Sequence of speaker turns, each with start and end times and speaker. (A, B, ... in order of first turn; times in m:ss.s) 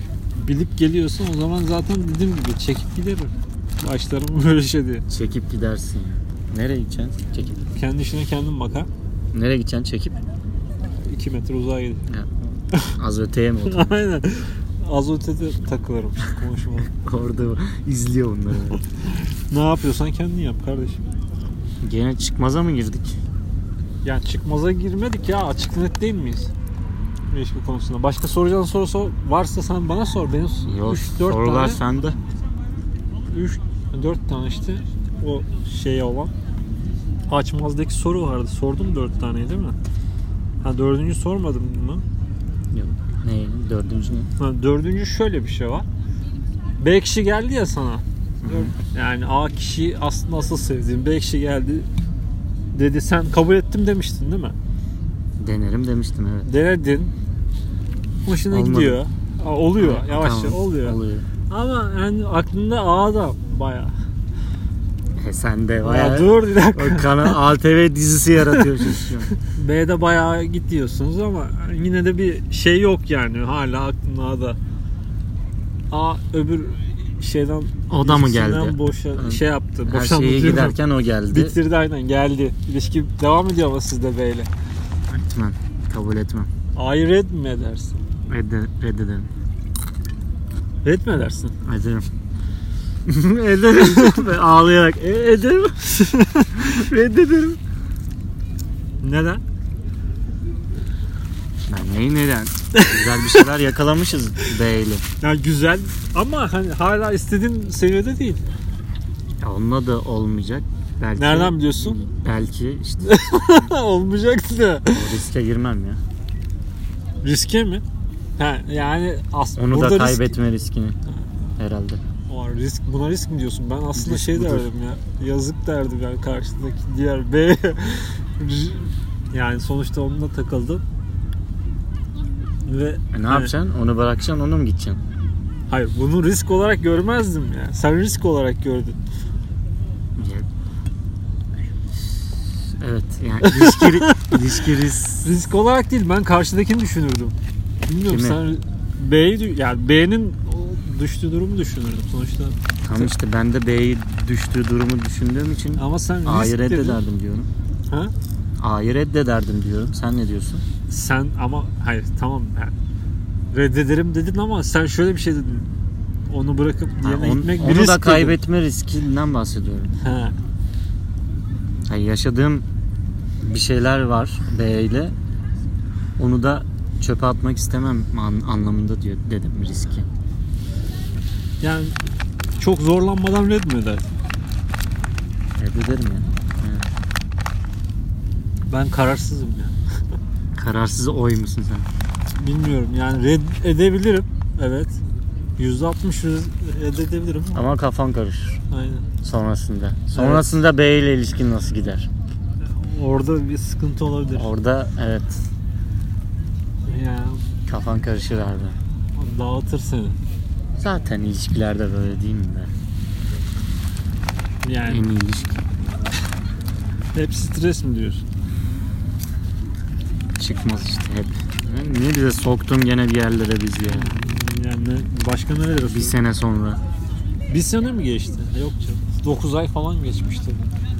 0:00.4-0:05.0 A
0:05.1-0:07.6 B
0:07.7-0:08.9 A
0:09.3-0:10.2 B
0:11.0-0:12.0 A
0:12.1-0:14.0 B
0:13.6-0:16.9 A
0:16.8-0:18.8 B
0:19.0-0:21.0 A
0:21.8-0:23.2 B
0:24.0-0:26.5 A
0:27.3-0:31.8 A
0:30.6-0:32.2 B
0:33.2-0:36.3 A
0:37.3-0:39.8 A
0:40.6-0:42.0 A
0:42.7-0:44.3 B
0:44.4-0:45.8 A
0:46.8-0:51.9 A
0:48.4-0:48.7 B
0:52.7-0:54.6 A
0:55.4-0:56.5 B
0:56.4-0:57.1 A
0:58.2-1:03.9 A
0:58.5-0:59.0 B
0:59.8-1:01.2 B
1:05.2-1:09.3 B
1:05.8-1:07.4 A
1:08.5-1:14.6 A
1:15.9-1:20.8 A
1:17.9-1:21.6 B
1:21.3-1:24.5 A
1:25.1-1:26.5 B
1:26.7-1:28.0 A
1:28.3-1:29.3 B
1:30.8-1:31.5 A
1:31.6-1:32.1 B
1:33.0-1:37.6 B
1:34.0-1:34.2 A
1:35.9-1:36.6 A
1:39.0-1:39.4 A
1:41.7-1:45.0 B
1:42.7-1:43.4 A
1:45.2-1:48.4 A
1:49.4-1:53.5 B
1:51.2-1:52.0 A
1:53.0-1:55.2 A
1:54.9-1:56.0 B
1:57.2-1:57.8 A
1:58.4-2:00.4 A
1:59.6-2:01.0 B
2:01.6-2:02.0 B
2:02.3-2:10.8 A
2:03.9-2:04.7 B
2:12.7-2:13.5 A
2:13.1-2:15.0 B
2:15.7-2:19.0 A
2:20.2-2:20.5 B
2:21.9-2:25.3 B
2:23.4-2:24.4 A
2:25.2-2:27.4 A
2:27.9-2:33.1 A
2:28.0-2:28.4 B
2:32.8-2:37.5 B
2:35.8-2:37.0 A
2:38.6-2:40.6 B
2:40.9-2:42.7 A
2:43.5-2:45.7 A
2:46.3-2:48.4 A
2:47.0-2:49.9 B
2:50.0-2:50.3 A
2:51.9-2:52.6 B
2:53.4-2:55.1 B
2:56.2-3:00.1 B
3:01.6-3:02.0 A
3:02.6-3:04.1 A
3:05.6-3:06.9 B
3:08.7-3:09.8 A
3:10.5-3:11.9 B
3:12.3-3:15.0 A
3:15.6-3:17.7 A
3:17.5-3:18.6 B
3:18.7-3:19.1 A
3:19.2-3:22.1 B
3:20.1-3:20.5 A
3:22.6-3:24.5 A
3:24.3-3:25.5 B
3:26.8-3:27.5 A
3:27.7-3:28.8 B
3:29.2-3:30.2 A
3:30.8-3:32.7 B
3:34.6-3:35.0 A
3:34.8-3:35.6 B
3:37.1-3:38.2 A
3:40.4-3:44.2 B
3:43.8-3:46.2 A
3:45.9-3:46.8 B
3:47.5-3:50.7 A